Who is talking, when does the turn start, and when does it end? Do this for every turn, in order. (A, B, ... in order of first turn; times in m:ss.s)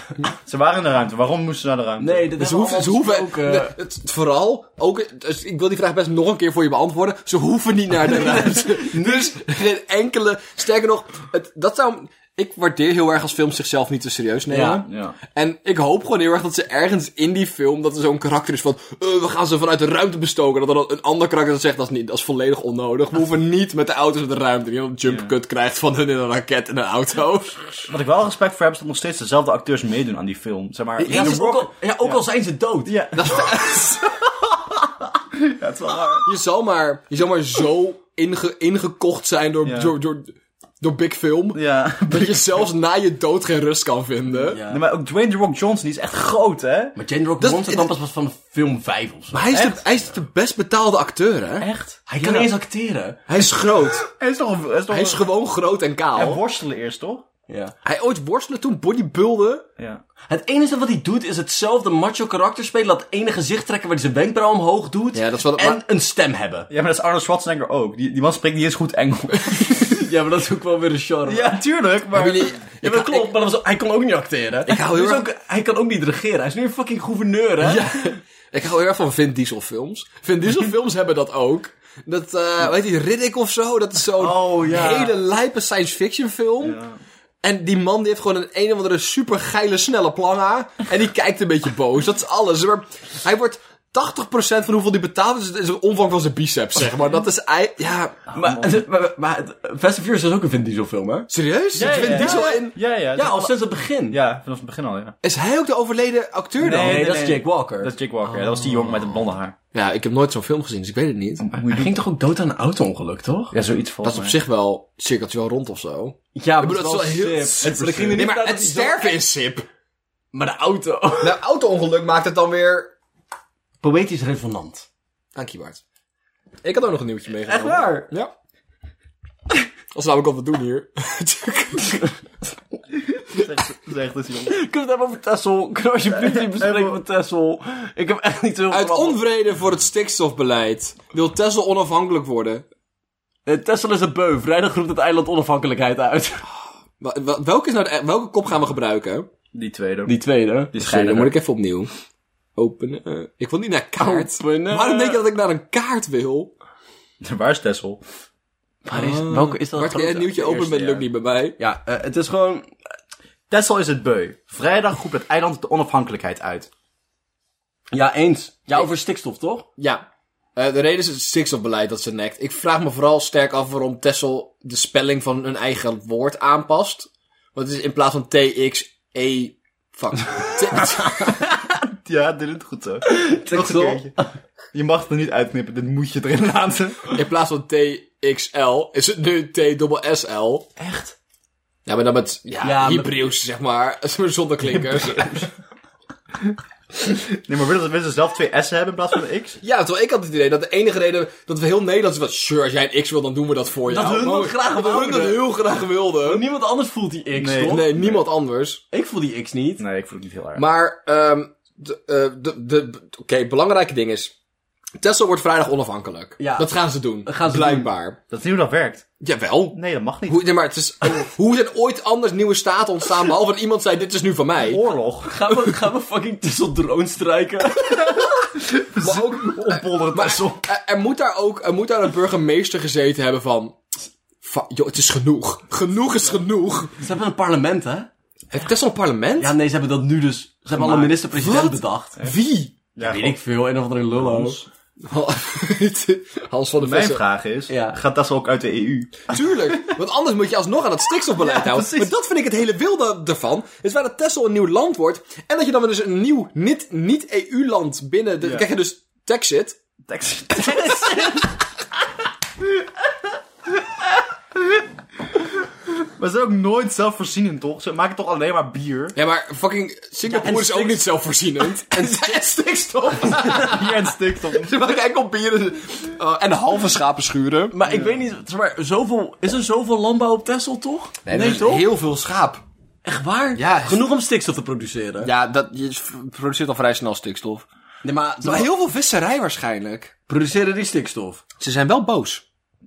0:00.4-0:02.3 A
0:02.0-0:03.7 B
0:02.4-0:27.9 C
0:08.1-0:09.3 B
0:14.5-0:14.8 B
0:14.8-0:15.2 A
0:25.0-0:25.3 A
0:27.9-0:32.2 A
0:31.0-0:31.6 C
0:31.0-0:32.9 B
0:32.8-0:36.3 A
0:33.1-0:34.0 C
0:36.2-0:44.6 C
0:39.6-0:39.9 A
0:41.5-0:42.6 A
0:44.4-0:44.8 B
0:44.6-0:47.0 A
0:47.0-0:49.8 B
0:47.4-0:47.9 C
0:49.3-0:51.7 C
0:51.6-0:52.5 A
0:52.1-0:53.2 B
0:53.3-0:54.0 C
0:54.0-0:55.2 A
0:54.9-0:56.4 C
0:56.1-0:57.2 A
0:57.5-0:57.7 B
0:57.8-0:59.6 C
1:00.3-1:06.7 B
1:05.1-1:05.8 C
1:06.7-1:10.0 A
1:09.8-1:11.6 B
1:11.3-1:12.6 A
1:12.1-1:13.3 C
1:12.8-1:17.9 B
1:14.7-1:15.2 C
1:17.6-1:26.8 C
1:24.2-1:25.1 A
1:26.6-1:27.0 A
1:27.4-1:38.2 C
1:38.3-1:44.2 B
1:38.3-1:38.8 A
1:41.3-1:42.7 C
1:41.8-1:43.6 A
1:44.1-1:45.2 A
1:45.2-1:47.2 C
1:46.6-1:49.5 A
1:46.7-1:47.9 B
1:49.7-1:51.4 C
1:51.4-1:51.9 A
1:51.6-1:53.5 B
1:53.5-1:54.4 A
1:54.0-1:59.6 C
1:56.3-1:59.1 B
1:57.6-1:58.2 A
2:00.3-2:01.4 B
2:01.2-2:02.9 C
2:03.8-2:04.9 B
2:05.3-2:05.8 C
2:06.6-2:08.3 C
2:07.4-2:08.1 B
2:09.9-2:12.1 C
2:13.1-2:14.6 A
2:14.4-2:19.2 B
2:16.1-2:17.0 A
2:18.7-2:22.6 C
2:23.4-2:26.4 B
2:27.0-2:29.3 C
2:29.5-2:30.2 A
2:30.0-2:31.3 B
2:30.7-2:31.3 A
2:30.9-2:31.9 C
2:32.6-2:36.5 C
2:34.0-2:35.2 B
2:37.2-2:38.0 A
2:38.8-2:41.0 B
2:38.9-2:41.6 C
2:41.6-2:42.7 B
2:43.5-2:46.7 A
2:47.9-2:49.7 B
2:49.8-2:50.0 C
2:50.6-3:01.4 C
3:01.2-3:04.2 A
3:03.0-3:04.3 B
3:04.7-3:07.2 A
3:07.1-3:10.8 C
3:11.8-3:15.5 C
3:12.6-3:13.2 B
3:14.7-3:15.4 A
3:17.0-3:19.6 A
3:19.6-3:26.4 C
3:23.9-3:25.4 B
3:26.2-3:27.9 B
3:27.3-3:28.2 A
3:27.6-3:28.8 C
3:28.9-3:29.8 B
3:29.8-3:30.6 A
3:30.5-3:34.3 C
3:35.0-3:38.2 C
3:36.4-3:37.9 B
3:38.3-3:39.0 A
3:39.2-3:44.8 C
3:39.7-3:40.5 A
3:44.6-3:45.4 A
3:45.2-3:48.2 B
3:47.8-3:50.6 A
3:49.0-3:53.8 C
3:54.4-3:56.9 C
3:57.0-3:58.1 B
3:58.5-3:59.5 C
3:59.4-4:02.2 B
4:00.8-4:02.7 C
4:03.0-4:03.4 A
4:03.0-4:04.6 B
4:04.2-4:04.6 A
4:05.0-4:07.2 C
4:06.8-4:10.0 A
4:07.7-4:08.0 B
4:09.3-4:19.8 C
4:11.4-4:12.1 A
4:20.1-4:21.6 A
4:20.6-4:21.4 C
4:22.6-4:22.8 A
4:23.7-4:24.8 A
4:26.2-4:29.2 A
4:29.1-4:37.7 C
4:30.2-4:31.0 B
4:31.8-4:32.4 B
4:33.1-4:33.8 B
4:33.2-4:34.8 A
4:37.7-4:41.9 B
4:41.2-4:42.6 C
4:43.0-4:45.3 B
4:43.5-4:44.1 C
4:45.2-4:47.6 C
4:48.0-4:48.7 B
4:48.4-4:50.1 C
4:50.3-4:51.4 B
4:51.6-4:52.4 C